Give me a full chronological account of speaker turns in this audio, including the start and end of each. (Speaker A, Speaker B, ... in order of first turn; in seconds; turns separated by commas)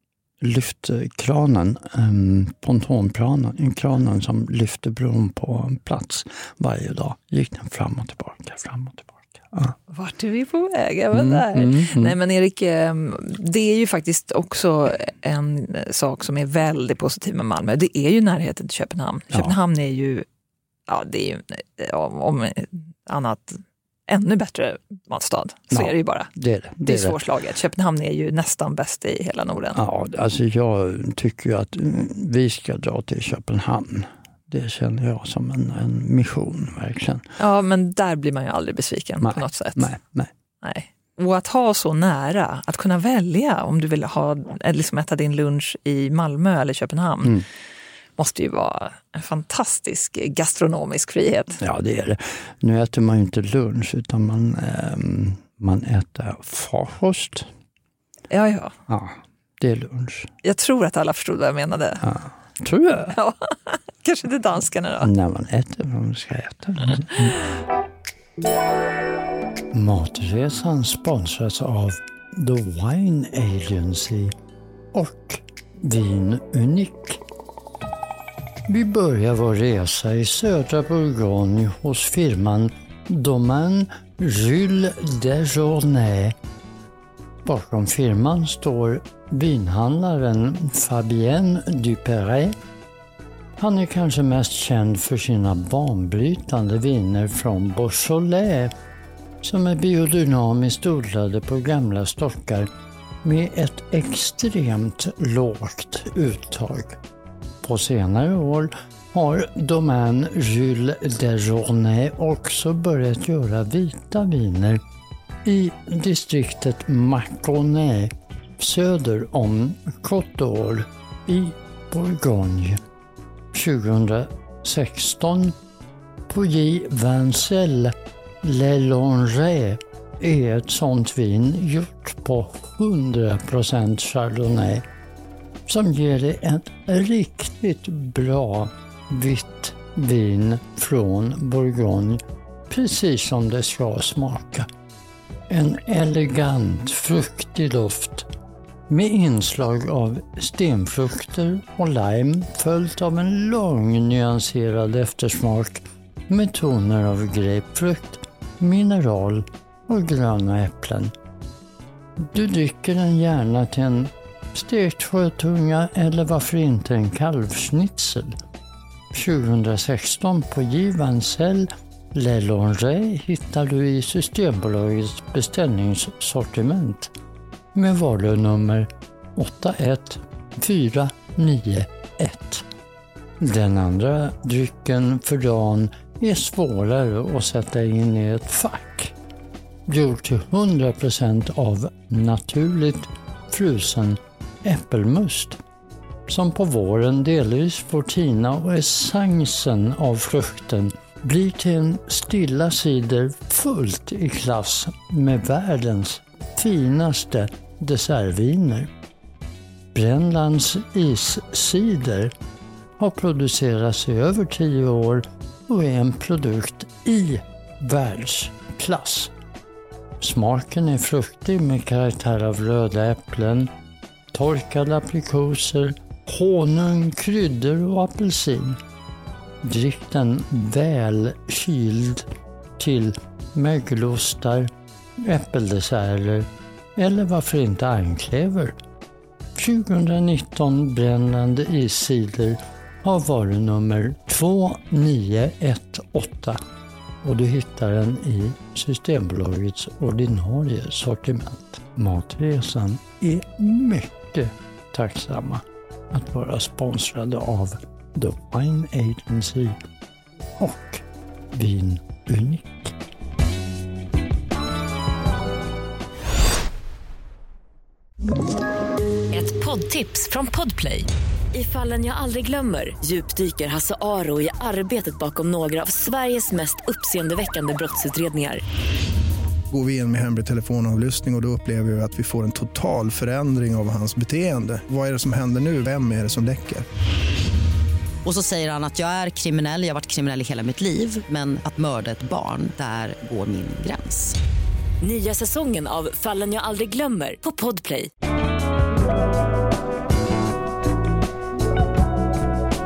Speaker A: 0.4-9.8, Speaker B: 9.9-20.2, Speaker A: 11.1-12.2, Speaker B: 20.9-26.3, Speaker A: 25.7-27.2, Speaker B: 26.9-29.8, Speaker A: 29.8-37.3, Speaker B: 37.4-39.9, Speaker A: 39.2-40.3, Speaker B: 40.6-47.5, Speaker B: 48.2-51.6, Speaker A: 51.6-57.5, Speaker B: 58.3-58.8, Speaker A: 58.9-60.3, Speaker B: 60.4-62.1, Speaker A: 62.0-63.2, Speaker B: 63.1-65.1, Speaker A: 65.0-67.4, Speaker A: 69.7-74.3, Speaker A: 74.9-77.2, Speaker A: 78.7-86.4, Speaker A: 87.4-92.6, Speaker A: 93.6-98.7, Speaker A: 99.4-102.7, Speaker A: 103.2-107.0, Speaker A: 107.6-114.8, Speaker A: 115.4-122.8, Speaker A: 123.5-125.6, Speaker A: 126.3-134.9, Speaker A: 135.7-144.7, Speaker A: 145.5-148.3, Speaker A: 148.9-161.1, Speaker A: 162.2-168.4, Speaker A: 169.1-177.1, Speaker A: 177.7-182.7, Speaker A: 183.4-189.2, Speaker A: 189.9-195.6, Speaker A: 196.3-208.9, Speaker A: 209.9-212.3, Speaker A: 213.0-219.3, Speaker A: 220.2-223.7, Speaker A: 224.3-228.8, Speaker A: 229.6-238.8, Speaker A: 239.6-246.6, Speaker A: 247.2-259.8, Speaker A: 260.6-263.0, Speaker C: 269.3-278.6, Speaker D: 279.7-286.9, Speaker E: 288.2-294.4, Speaker C: 295.0-298.1